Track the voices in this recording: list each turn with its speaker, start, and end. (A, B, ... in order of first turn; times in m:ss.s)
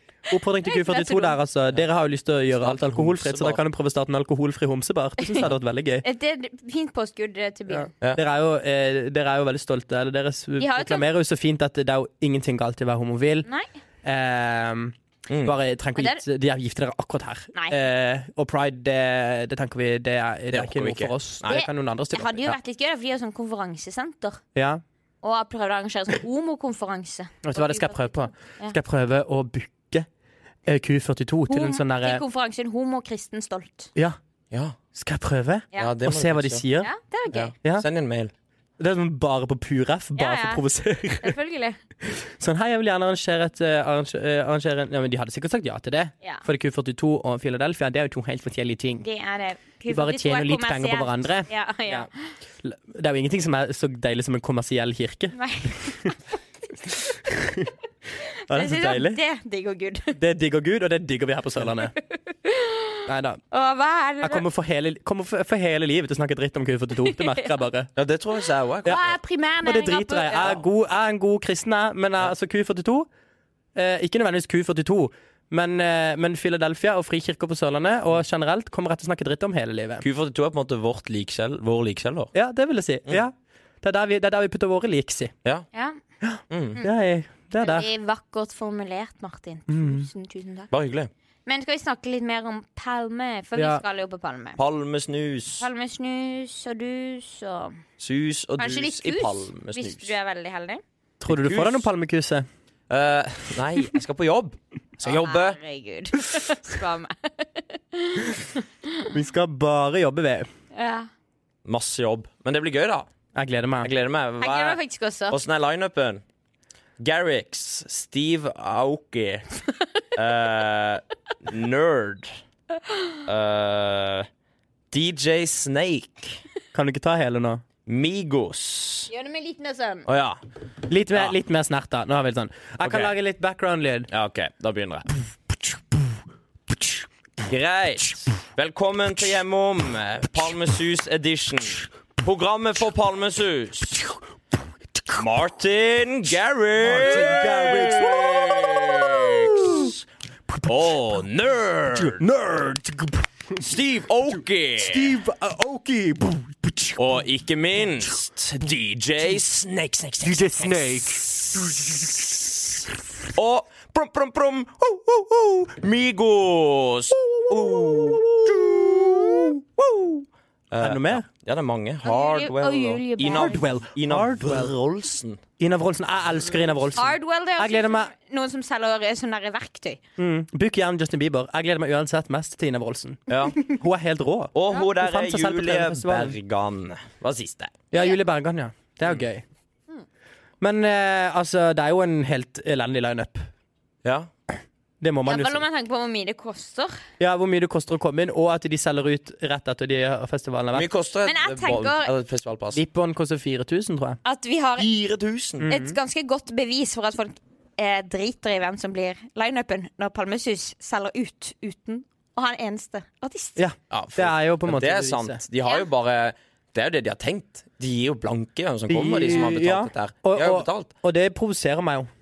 0:00.3-0:06.0 A
0:00.6-0:01.4 B
0:02.5-0:03.6 C
0:06.0-0:07.9 B
0:07.7-0:13.5 A
0:10.6-0:11.1 B
0:14.0-0:22.5 A
0:15.3-0:15.6 C
0:16.0-0:16.2 B
0:20.5-0:21.6 C
0:21.5-0:24.4 B
0:24.6-0:24.8 A
0:25.2-0:28.8 B
0:27.4-0:30.1 A
0:30.7-0:32.2 A
0:31.5-0:33.9 B
0:34.9-0:36.9 A
0:35.8-0:36.6 C
0:36.8-0:37.5 B
0:37.3-0:38.3 C
0:38.8-0:41.4 A
0:40.2-0:40.6 B
0:41.2-0:41.8 B
0:42.0-0:49.1 A
0:49.0-0:52.1 B
0:49.9-0:52.1 A
0:52.6-0:56.1 A
0:55.3-0:56.2 B
0:57.2-0:57.7 A
0:58.5-0:59.2 A
0:58.5-1:00.2 B
1:00.2-1:02.0 A
1:02.1-1:03.0 B
1:03.1-1:03.4 A
1:03.5-1:04.4 B
1:04.2-1:07.9 A
1:07.1-1:07.6 B
1:08.0-1:09.2 C
1:08.8-1:10.6 B
1:09.6-1:13.1 A
1:13.8-1:20.0 A
1:20.0-1:22.3 C
1:22.3-1:25.3 A
1:26.2-1:27.9 A
1:26.5-1:26.8 C
1:27.6-1:30.7 B
1:29.7-1:30.1 A
1:30.7-1:31.1 C
1:31.5-1:34.6 B
1:33.6-1:33.8 A
1:34.6-1:35.7 C
1:35.6-1:37.8 B
1:38.0-1:40.1 C
1:38.6-1:40.8 B
1:41.2-1:42.4 A
1:41.3-1:41.9 C
1:42.9-1:45.6 C
1:45.0-1:49.1 B
1:49.1-1:50.5 A
1:50.7-1:51.1 B
1:51.6-1:53.1 C
1:53.4-1:53.9 A
1:53.8-1:54.8 C
1:54.4-1:55.4 B
1:55.3-1:56.2 C
1:57.0-1:59.5 C
2:00.2-2:02.4 C
2:03.3-2:04.3 C
2:04.9-2:06.4 C
2:06.7-2:07.6 A
2:07.9-2:09.1 C
2:09.1-2:10.1 B
2:10.1-2:10.4 C
2:10.9-2:14.1 A
2:12.8-2:13.1 C
2:14.1-2:15.1 C
2:17.4-2:24.1 C
2:25.1-2:30.0 C
2:26.8-2:30.0 A
2:30.6-2:32.2 C
2:31.9-2:33.6 A
2:33.6-2:35.2 C
2:34.3-2:37.2 A
2:37.0-2:41.8 C
2:40.2-2:42.6 A
2:43.4-2:50.0 C
2:47.2-2:49.6 A
2:50.7-2:55.4 C
2:50.8-2:51.3 A
2:52.0-2:53.6 B
2:53.2-2:54.8 A
2:55.6-2:58.1 A
2:57.0-3:00.0 B
3:00.2-3:06.4 A
3:03.3-3:03.6 C
3:04.5-3:07.7 C
3:07.9-3:09.4 A
3:10.6-3:13.5 A
3:14.0-3:14.3 C
3:15.0-3:15.6 A
3:15.3-3:17.0 B
3:17.2-3:20.9 A
3:20.7-3:22.8 C
3:21.2-3:22.1 B
3:22.7-3:24.2 A
3:24.2-3:24.9 B
3:24.8-3:25.7 C
3:25.6-3:26.0 A
3:25.7-3:33.6 B
3:33.6-3:35.4 A
3:33.9-3:40.9 C
3:38.9-3:42.1 A